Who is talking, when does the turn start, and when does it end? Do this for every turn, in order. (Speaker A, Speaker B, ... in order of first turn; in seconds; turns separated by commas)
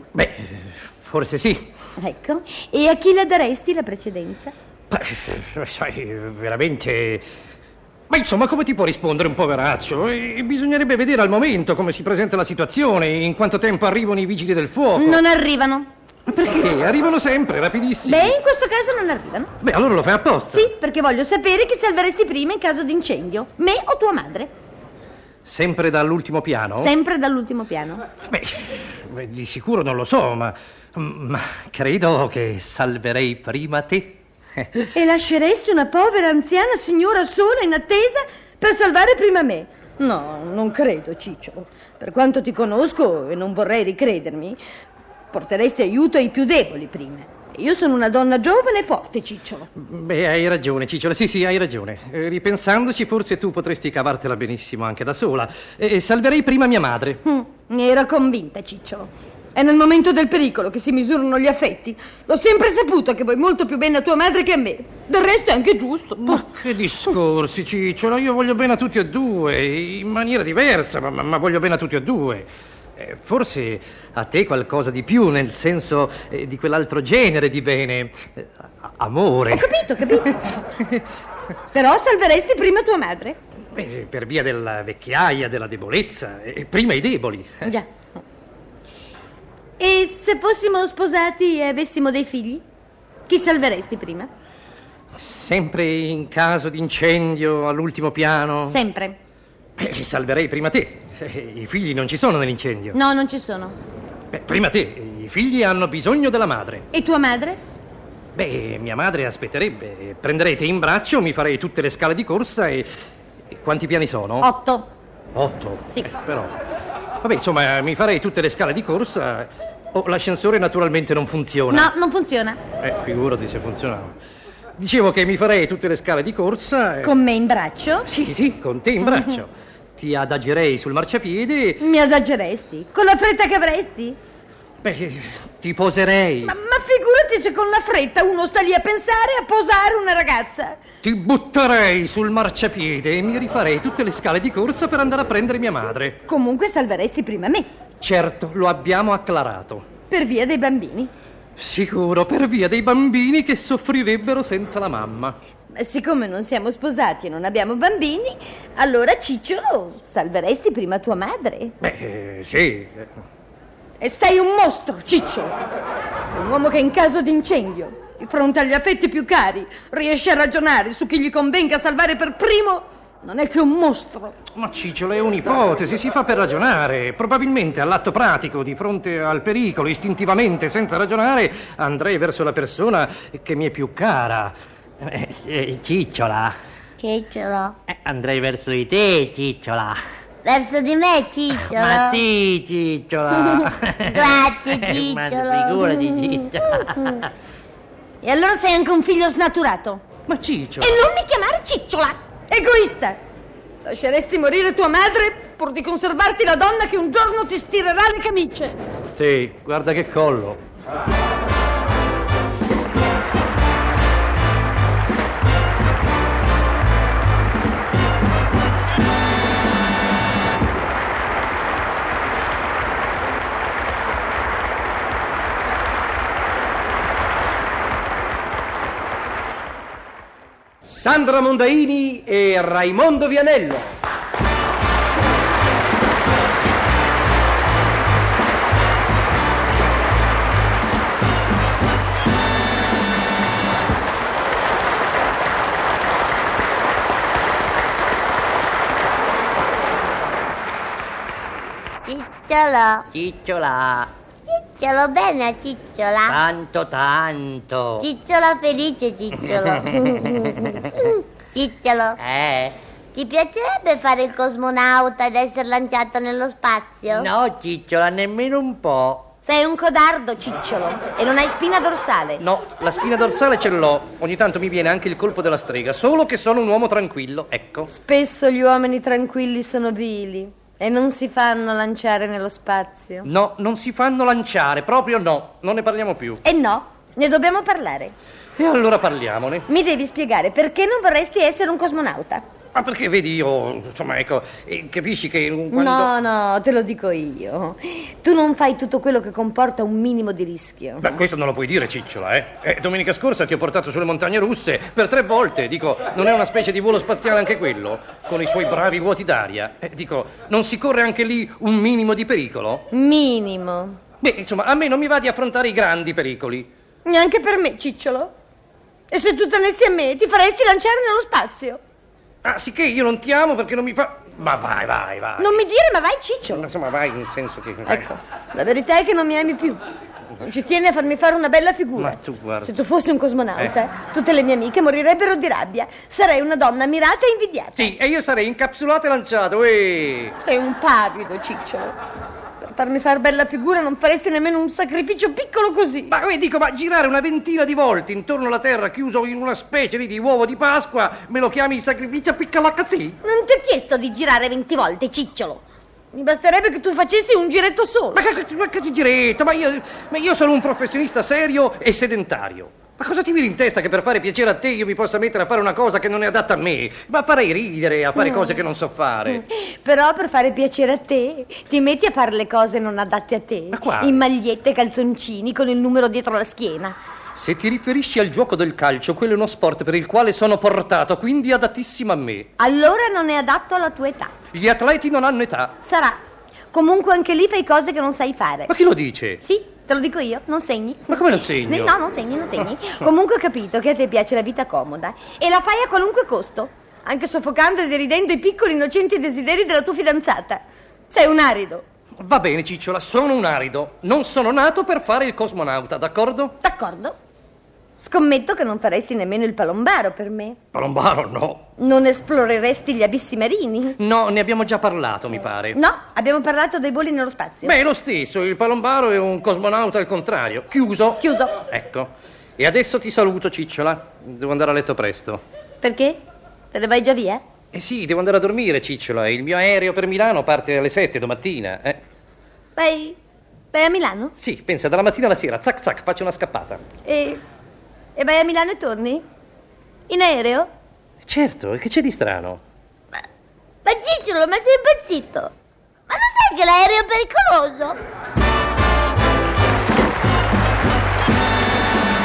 Speaker A: 0.1-1.7, Speaker B: 2.0-4.5, Speaker A: 4.9-7.2, Speaker A: 8.1-15.2, Speaker B: 14.9-15.9, Speaker A: 16.3-18.3, Speaker B: 18.0-19.5, Speaker A: 19.6-20.7, Speaker B: 20.5-24.5, Speaker A: 25.4-26.9, Speaker B: 26.7-28.0, Speaker A: 28.3-34.8, Speaker B: 34.9-44.6, Speaker B: 45.3-49.7, Speaker A: 49.8-57.2, Speaker B: 57.2-66.4, Speaker A: 66.2-79.8, Speaker B: 79.5-80.3, Speaker B: 81.7-83.4, Speaker A: 83.7-87.7, Speaker B: 89.8-92.6, Speaker B: 93.3-94.3, Speaker A: 95.1-98.8, Speaker B: 98.7-99.2, Speaker A: 99.8-103.0, Speaker B: 102.9-103.8, Speaker A: 104.3-106.9, Speaker B: 106.9-107.6, Speaker A: 108.3-112.9, Speaker A: 113.5-114.5, Speaker B: 114.4-114.9, Speaker A: 115.3-116.5, Speaker A: 117.2-121.9, Speaker B: 121.7-122.6, Speaker A: 122.8-124.1, Speaker A: 124.8-127.1, Speaker B: 127.0-128.1, Speaker A: 128.1-131.8, Speaker B: 131.8-134.2, Speaker A: 134.8-136.5, Speaker B: 136.4-140.8, Speaker A: 141.0-146.2, Speaker B: 146.2-147.7, Speaker A: 148.0-149.8, Speaker B: 150.1-151.1, Speaker A: 151.6-155.3, Speaker B: 155.7-161.7, Speaker A: 161.8-163.1, Speaker B: 164.0-165.6, Speaker B: 166.3-174.3, Speaker A: 174.5-186.5, Speaker C: 185.9-186.3, Speaker D: 187.0-187.8, Speaker C: 187.9-190.0, Speaker D: 190.4-192.2, Speaker C: 191.6-197.2, Speaker D: 193.3-196.4, Speaker B: 198.2-200.0, Speaker A: 200.3-201.0, Speaker B: 200.8-203.2, Speaker B: 203.8-208.8, Speaker A: 209.1-210.6, Speaker E: 230.8-233.9, Speaker D: 252.1-253.1, Speaker C: 253.1-254.1, Speaker D: 254.6-256.4, Speaker C: 256.3-258.1, Speaker D: 258.0-262.2, Speaker C: 260.3-260.8, Speaker C: 262.2-262.8, Speaker D: 263.1-267.3, Speaker C: 267.1-269.3, Speaker B: 269.4-272.4, Speaker A: 272.4-277.9, Speaker B: 277.9-283.3, Speaker A: 283.2-286.4, Speaker B: 286.4-288.1, Speaker A: 288.6-289.6, Speaker B: 289.7-292.4, Speaker A: 292.7-296.1, Speaker B: 295.7-301.2, Speaker A: 301.0-312.8, Speaker B: 312.9-314.0, Speaker A: 314.2-316.7, Speaker B: 317.0-318.3, Speaker B: 319.1-321.8, Speaker A: 322.4-325.6, Speaker B: 325.4-326.6, Speaker A: 326.6-328.1, Speaker B: 327.9-329.8, Speaker B: 330.4-337.9, Speaker A: 332.0-332.8, Speaker A: 337.8-340.3, Speaker B: 340.4-341.9, Speaker B: 342.6-346.1, Speaker A: 346.1-353.2, Speaker B: 353.2-358.2, Speaker A: 358.1-369.4, Speaker B: 368.2-368.6, Speaker B: 369.3-377.0, Speaker A: 373.7-374.2, Speaker A: 377.3-382.5, Speaker B: 382.6-384.3, Speaker A: 384.5-385.8, Speaker B: 385.8-386.2, Speaker B: 386.7-388.7, Speaker A: 388.7-389.4, Speaker B: 389.4-401.8, Speaker A: 391.1-391.9, Speaker A: 402.2-406.5, Speaker B: 406.6-407.1, Speaker B: 408.0-410.6, Speaker A: 410.7-411.6, Speaker B: 411.8-414.0, Speaker A: 414.0-415.8, Speaker B: 415.7-417.8, Speaker A: 417.6-425.4, Speaker B: 421.2-421.5, Speaker B: 425.8-426.2, Speaker B: 426.7-427.4, Speaker A: 427.7-432.0, Speaker B: 432.8-433.2, Speaker B: 433.7-434.3, Speaker A: 434.4-436.8, Speaker B: 437.0-437.4, Speaker B: 438.1-439.2, Speaker B: 440.1-440.7, Speaker A: 441.2-442.6, Speaker D: 443.9-445.5, Speaker D: 446.1-448.0